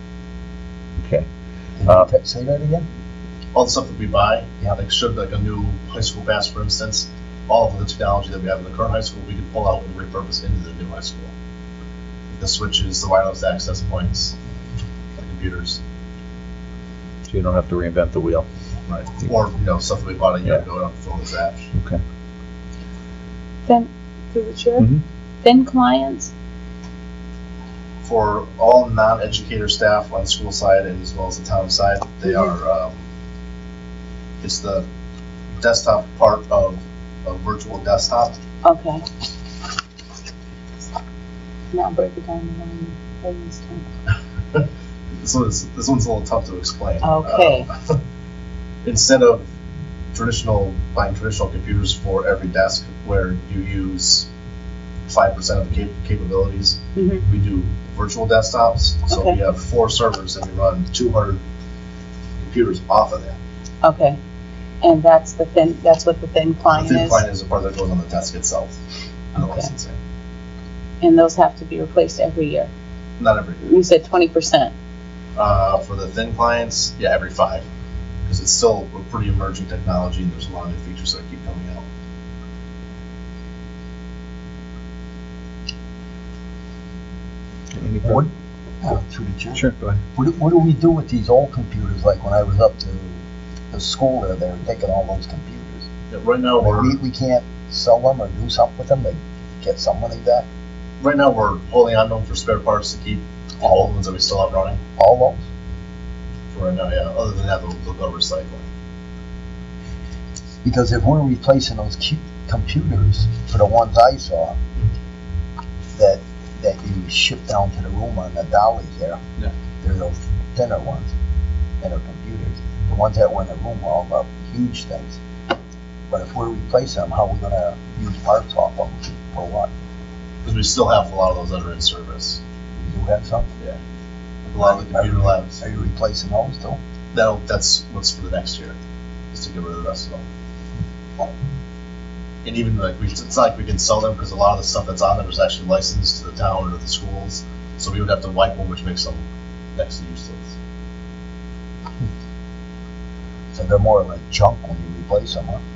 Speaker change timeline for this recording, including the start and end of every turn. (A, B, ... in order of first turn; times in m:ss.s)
0:01.0-0:01.3 A
0:01.8-0:02.8 B
0:03.5-0:11.3 C
0:12.3-0:14.4 C
0:15.2-0:15.8 C
0:17.3-0:18.5 A
0:18.9-0:21.7 C
0:21.7-0:22.0 A
0:23.6-0:24.8 D
0:25.4-0:26.3 D
0:28.0-0:33.0 C
0:34.4-0:34.9 C
0:35.6-0:38.4 C
0:38.6-0:39.0 D
0:41.7-0:43.9 D
0:45.2-0:48.0 C
0:47.0-0:47.7 D
0:48.8-0:49.4 C
0:50.1-0:54.3 C
0:55.1-1:01.4 C
0:57.0-0:57.2 D
0:59.1-0:59.4 D
1:02.4-1:03.4 C
1:03.8-1:04.2 D
1:04.8-1:07.2 D
1:06.7-1:08.8 C
1:09.3-1:10.0 C
1:09.4-1:09.7 D
1:11.0-1:12.7 D
1:13.2-1:13.6 C
1:13.6-1:14.7 D
1:15.4-1:17.6 C
1:18.3-1:21.8 C
1:27.7-1:28.3 A
1:28.0-1:28.3 B
1:28.8-1:33.2 B
1:29.5-1:30.0 A
1:33.7-1:35.9 B
1:36.1-1:37.0 C
1:36.6-1:40.5 B
1:41.0-1:44.8 C
1:43.6-1:43.9 B
1:45.0-1:45.4 B
1:46.5-1:48.7 C
1:50.6-1:54.6 B
1:55.9-1:59.2 B
1:59.8-2:01.1 B
2:01.8-2:05.2 B
2:06.1-2:09.7 B
2:10.4-2:12.4 C
2:12.8-2:13.5 B
2:14.4-2:15.6 C
2:14.6-2:16.8 B
2:17.1-2:18.8 C
2:19.3-2:20.2 C
2:22.4-2:30.5 C
2:33.5-2:35.6 B